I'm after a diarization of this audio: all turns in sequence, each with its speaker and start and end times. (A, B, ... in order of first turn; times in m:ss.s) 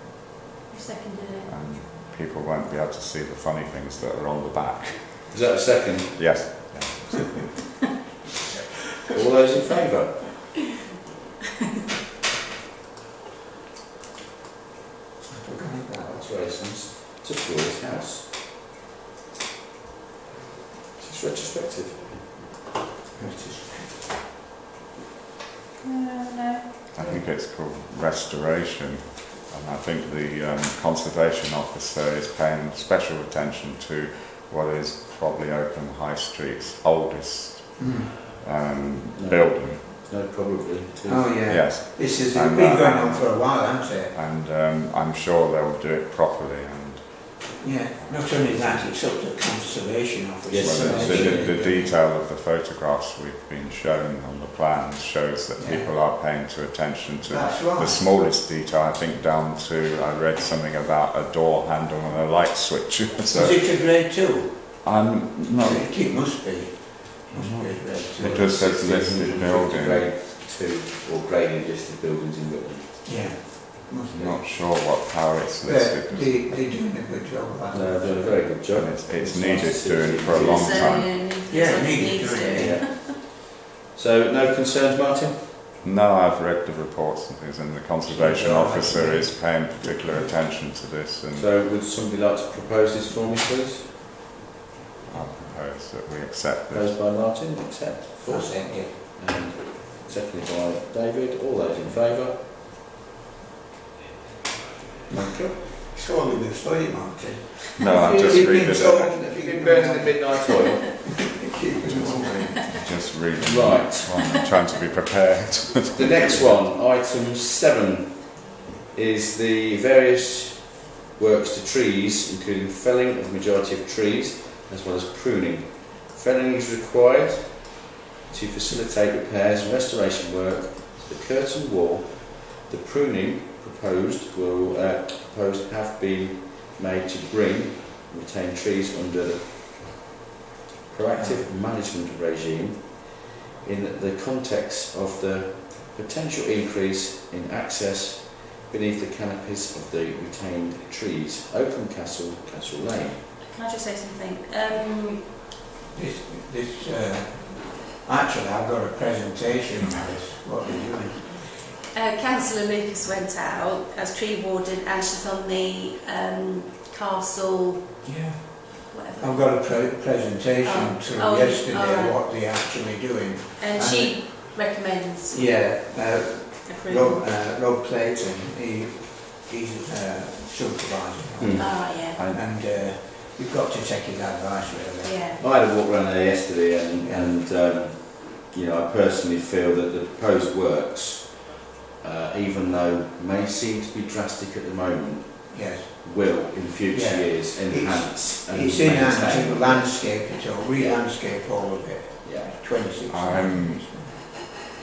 0:00.7-0:01.5 A
0:01.4-0:05.6 B
0:05.3-0:06.3 C
0:06.1-0:07.6 B
0:09.1-0:10.4 C
0:15.3-0:16.3 D
0:16.0-0:18.3 C
0:21.0-0:22.3 C
0:23.2-0:24.0 D
0:25.8-0:26.7 A
0:26.9-0:39.9 B
0:37.8-0:38.1 D
0:39.2-0:41.4 C
0:41.1-0:44.2 D
0:41.5-0:47.5 B
0:47.6-0:52.0 D
0:48.0-0:48.9 B
0:50.5-0:51.5 C
0:50.6-1:03.7 B
0:55.6-0:55.9 D
0:57.3-0:58.0 D
1:03.3-1:04.9 D
1:04.8-1:06.0 B
1:05.6-1:08.5 D
1:07.3-1:10.1 B
1:08.2-1:13.3 C
1:13.0-1:14.4 D
1:14.1-1:16.4 B
1:15.6-1:18.4 D
1:17.7-1:21.0 C
1:18.7-1:21.2 B
1:20.5-1:23.1 A
1:21.3-1:22.9 D
1:22.6-1:23.4 C
1:24.0-1:25.5 C
1:25.8-1:31.5 B
1:28.0-1:29.4 D
1:30.0-1:30.3 D
1:31.4-1:33.9 C
1:35.1-1:37.0 B
1:36.7-1:42.4 C
1:38.2-1:39.0 D
1:45.1-1:45.6 C
1:45.9-1:52.7 D
1:47.8-1:49.0 B
1:47.9-1:50.8 C
1:51.8-1:56.6 B
1:53.4-1:54.2 C
1:56.0-2:20.0 C
2:20.9-2:33.4 C
2:33.4-2:35.3 A
2:35.9-2:41.6 D
2:41.9-2:48.0 A
2:48.0-3:05.2 D
2:48.8-2:49.6 A
2:50.6-2:52.2 A
2:53.6-2:55.4 A
2:56.6-2:57.3 A
3:01.4-3:02.4 C
3:01.6-3:02.2 A
3:05.0-3:05.4 A
3:05.4-3:20.0 C
3:07.0-3:07.3 D
3:15.5-3:16.0 D
3:16.9-3:24.2 D
3:22.2-3:22.6 C
3:23.1-3:23.9 B